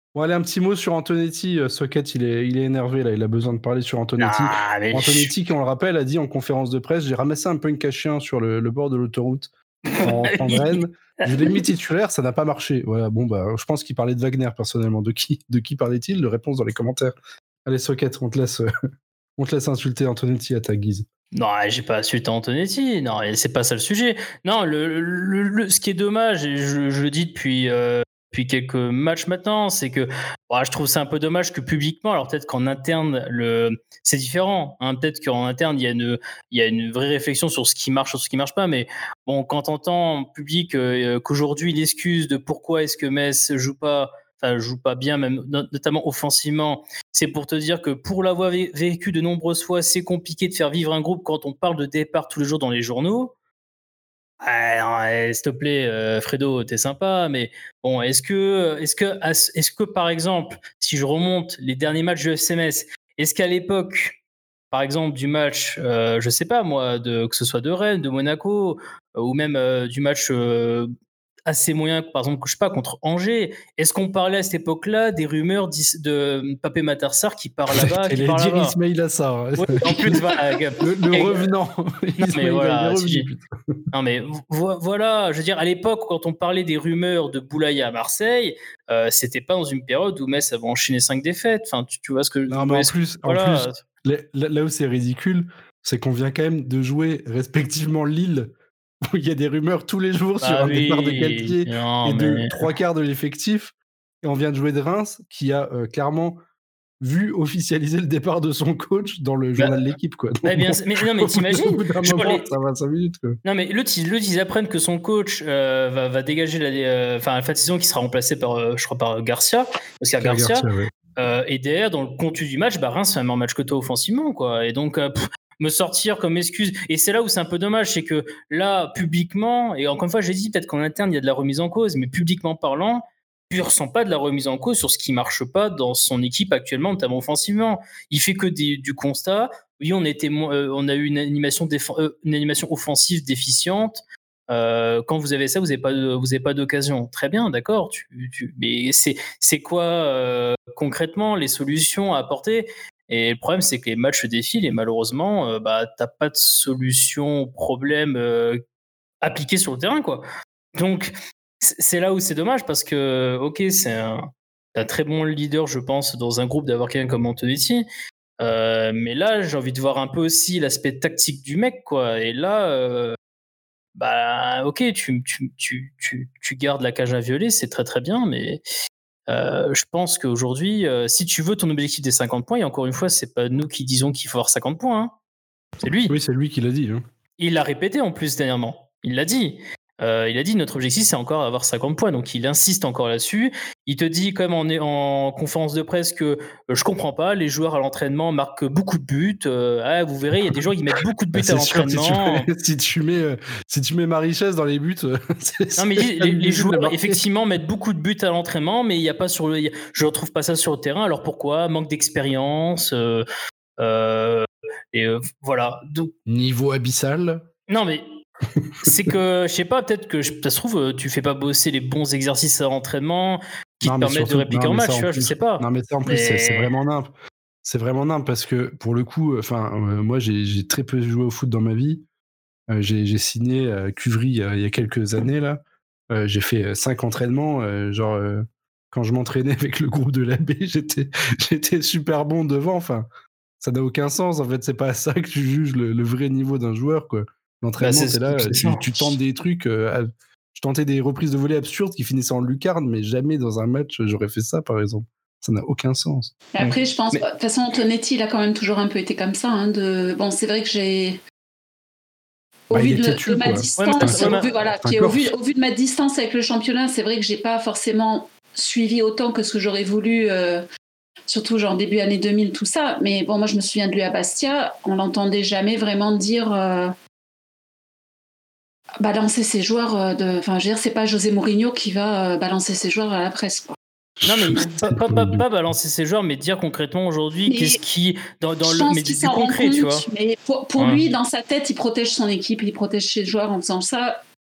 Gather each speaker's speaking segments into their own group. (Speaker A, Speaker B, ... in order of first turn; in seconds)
Speaker A: 0.1-17.1, 17.6-18.7, 19.4-21.1, 77.7-80.2, 80.8-83.7, 92.5-98.5, 99.0-106.4, 107.0-113.4, 120.2-120.9, 186.1-187.0, 201.3-207.2, 216.2-217.4, 218.6-219.0, 223.8-227.1, 227.6-232.0, 232.7-243.1, 243.6-256.3, 262.7-265.3, 284.2-285.4
Speaker B: 4.2-5.3, 9.9-10.8, 21.3-53.3, 54.4-64.2, 64.7-70.9, 71.5-78.8, 79.6-81.4, 82.2-83.3, 83.9-93.8, 100.4-102.7, 110.4-112.5, 113.4-158.6, 159.2-167.8, 168.4-173.2, 173.9-178.6, 179.3-185.1, 185.8-186.2, 187.4-202.5, 205.8-213.2, 213.8-216.1, 217.7-218.0, 218.8-226.7, 247.8-249.1, 256.6-257.2, 263.8-264.7, 284.2-290.1, 290.8-291.1
Speaker C: 256.5-261.2, 262.7-270.6, 271.3-276.9, 279.0-283.8, 287.5-287.8, 288.6-294.2